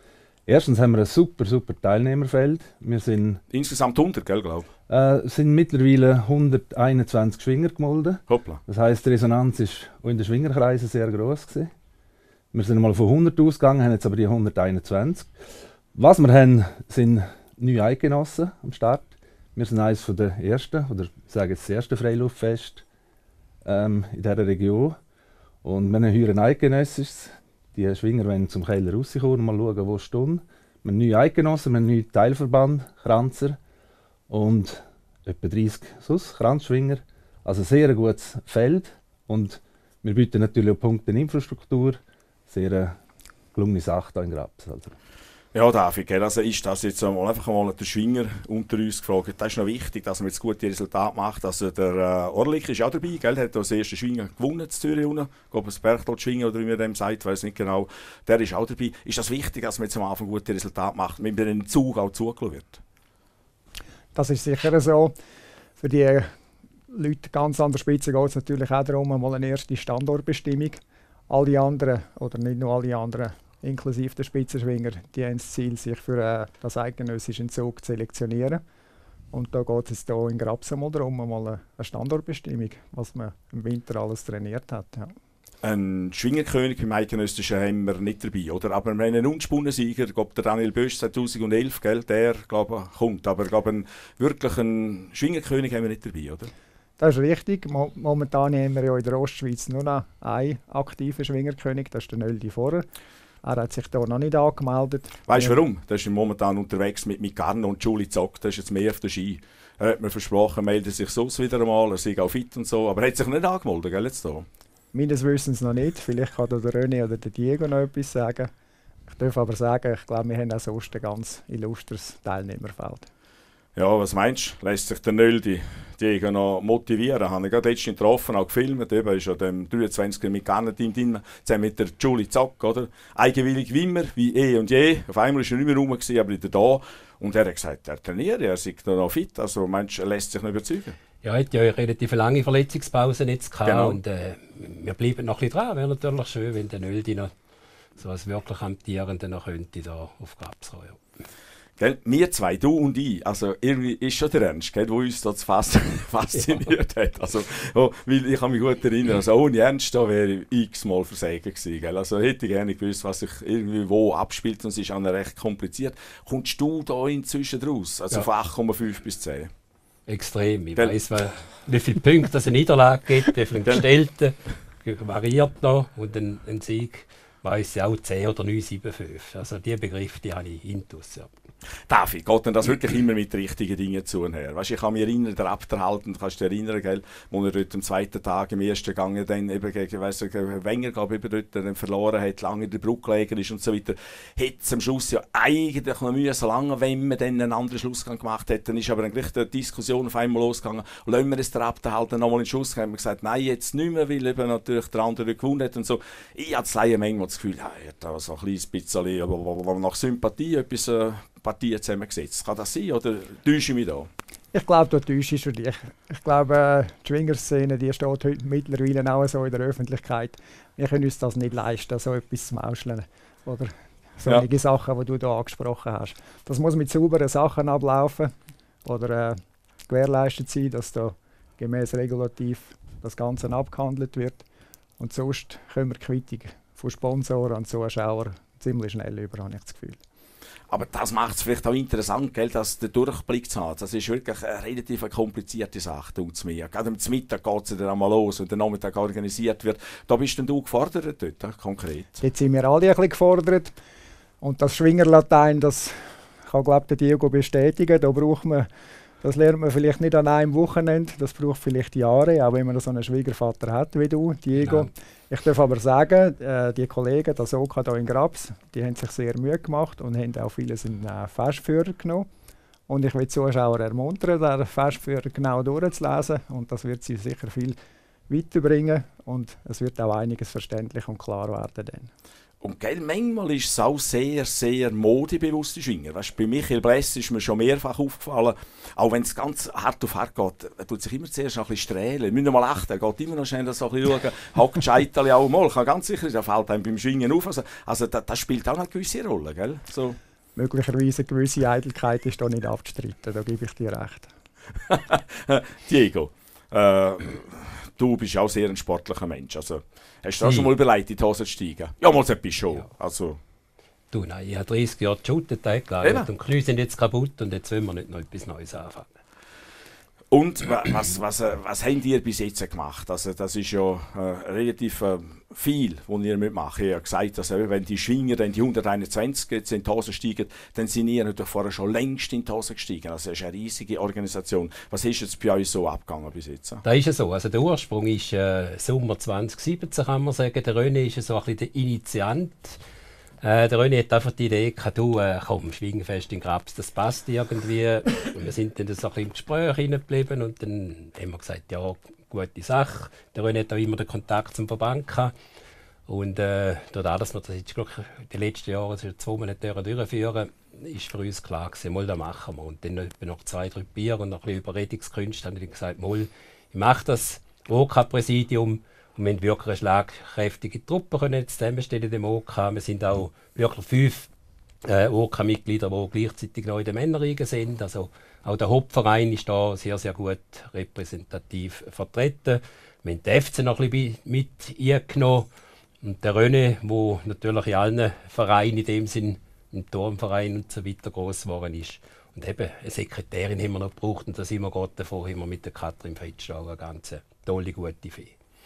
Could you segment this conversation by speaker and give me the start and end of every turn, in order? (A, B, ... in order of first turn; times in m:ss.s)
0:00.5-0:03.4 A
0:03.5-0:04.7 B
0:04.9-0:11.7 A
0:08.3-0:08.6 B
0:12.5-0:15.3 A
0:15.9-0:22.8 A
0:23.6-0:25.0 A
0:25.6-0:33.6 A
0:34.3-0:43.0 A
0:43.5-0:44.9 A
0:45.5-1:02.8 B
1:04.1-1:05.1 C
1:05.8-1:06.3 C
1:06.9-1:18.6 C
1:19.3-1:25.1 C
1:25.6-1:36.5 B
1:37.0-1:42.8 C
1:43.4-1:45.6 C
1:45.3-1:54.4 B
1:54.9-1:58.5 C
1:59.1-2:03.1 C
2:03.8-2:21.0 B
2:21.2-2:27.3 D
2:23.6-2:24.0 B
2:28.0-2:31.0 D
2:31.8-2:49.5 B
2:50.1-3:01.3 D
3:01.9-3:34.1 B
3:34.5-3:48.3 C
3:48.8-3:54.4 C
3:55.0-4:00.0 C
4:00.7-4:12.2 B
4:12.2-4:13.7 C
4:14.4-4:18.7 C
4:19.2-4:32.3 C
4:24.6-4:24.9 D
4:32.9-4:37.8 C
4:38.3-4:42.1 C
4:42.6-5:00.2 B
5:00.6-5:04.3 C
5:04.9-5:13.4 B
5:10.4-5:10.7 D
5:14.1-5:19.2 D
5:16.0-5:16.3 B
5:20.3-5:36.8 B
5:36.8-5:42.8 D
5:43.4-5:55.3 D
5:56.1-6:14.3 D
6:14.8-6:25.5 D
6:26.0-6:38.3 D